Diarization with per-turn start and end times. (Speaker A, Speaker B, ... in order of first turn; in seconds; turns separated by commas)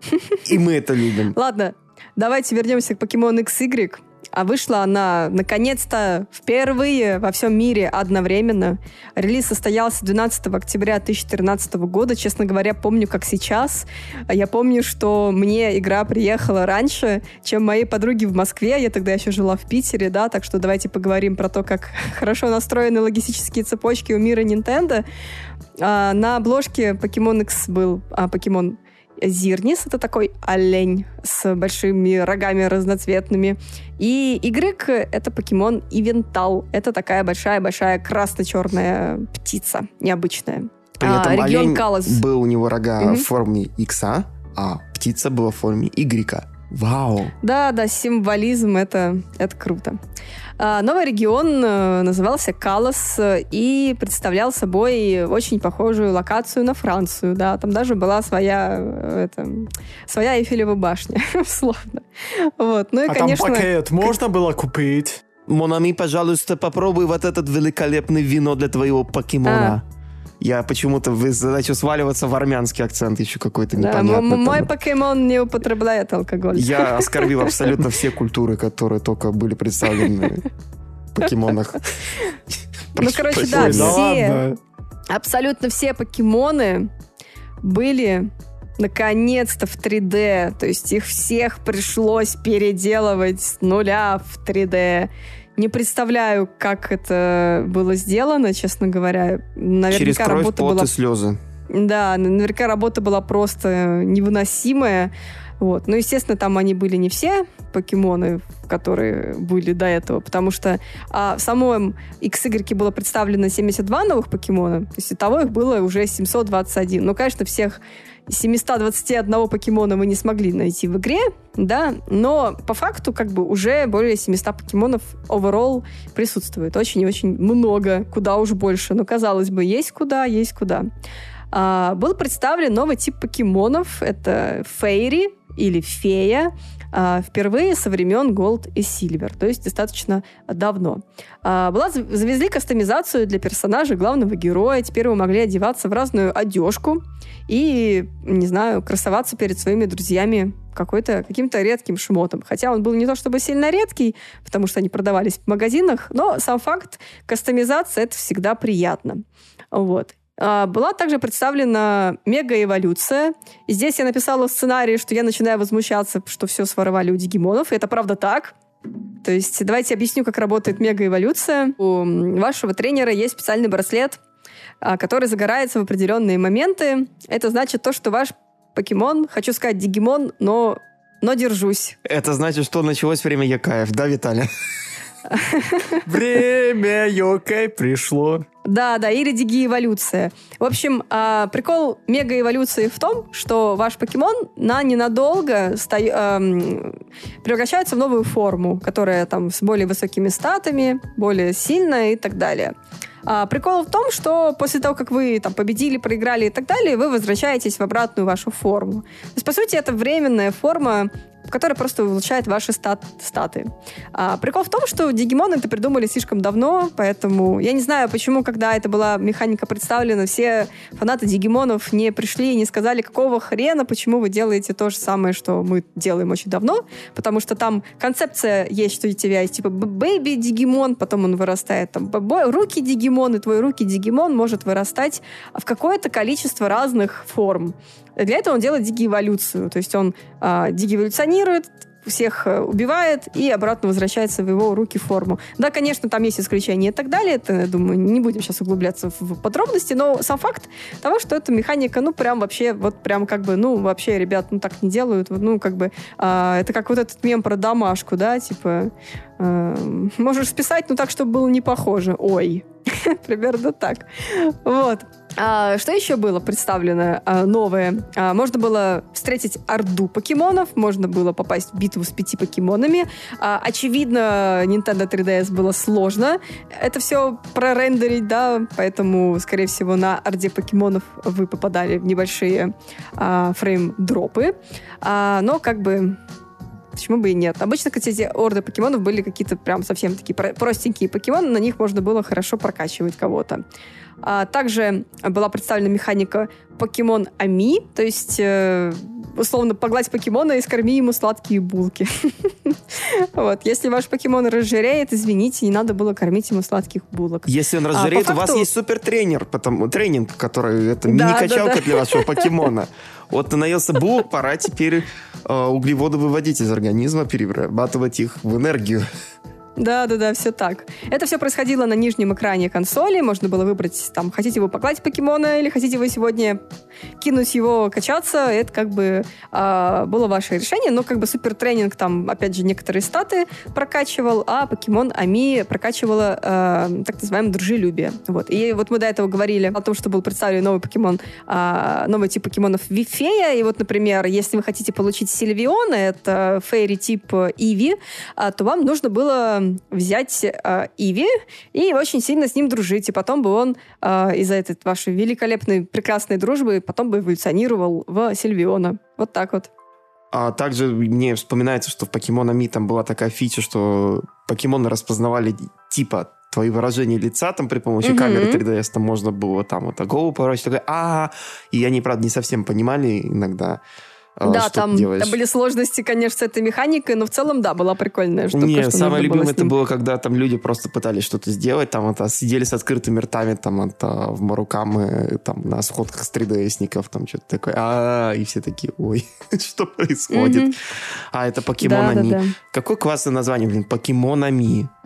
Speaker A: 0.4-1.3, Speaker B: 1.3-25.0, Speaker B: 25.8-42.2, Speaker A: 41.0-47.3, Speaker B: 43.0-43.2, Speaker B: 47.4-50.0, Speaker B: 50.6-64.1, Speaker C: 63.1-65.2, Speaker A: 65.5-69.8, Speaker B: 69.4-69.8, Speaker A: 70.4-74.7, Speaker B: 73.8-77.5, Speaker A: 76.5-80.4, Speaker A: 81.1-81.9, Speaker A: 82.9-84.0, Speaker B: 83.0-84.4, Speaker C: 83.5-84.6, Speaker B: 85.1-86.9, Speaker B: 87.6-100.9, Speaker A: 99.9-101.4, Speaker B: 101.7-130.9, Speaker B: 131.5-159.2, Speaker B: 159.7-168.5, Speaker B: 169.2-174.2, Speaker B: 174.8-182.0, Speaker A: 182.0-184.5, Speaker B: 185.3-186.0, Speaker C: 186.1-188.4, Speaker B: 188.6-202.7, Speaker B: 203.2-286.2, Speaker B: 286.9-293.6, Speaker B: 294.2-308.7, Speaker A: 307.5-319.1, Speaker B: 311.1-312.6, Speaker B: 319.8-326.6, Speaker B: 327.2-359.7, Speaker A: 360.3-373.8, Speaker B: 368.0-368.6, Speaker A: 374.4-375.4, Speaker B: 374.4-379.7, Speaker A: 378.5-394.9, Speaker B: 390.3-390.7, Speaker B: 391.8-392.6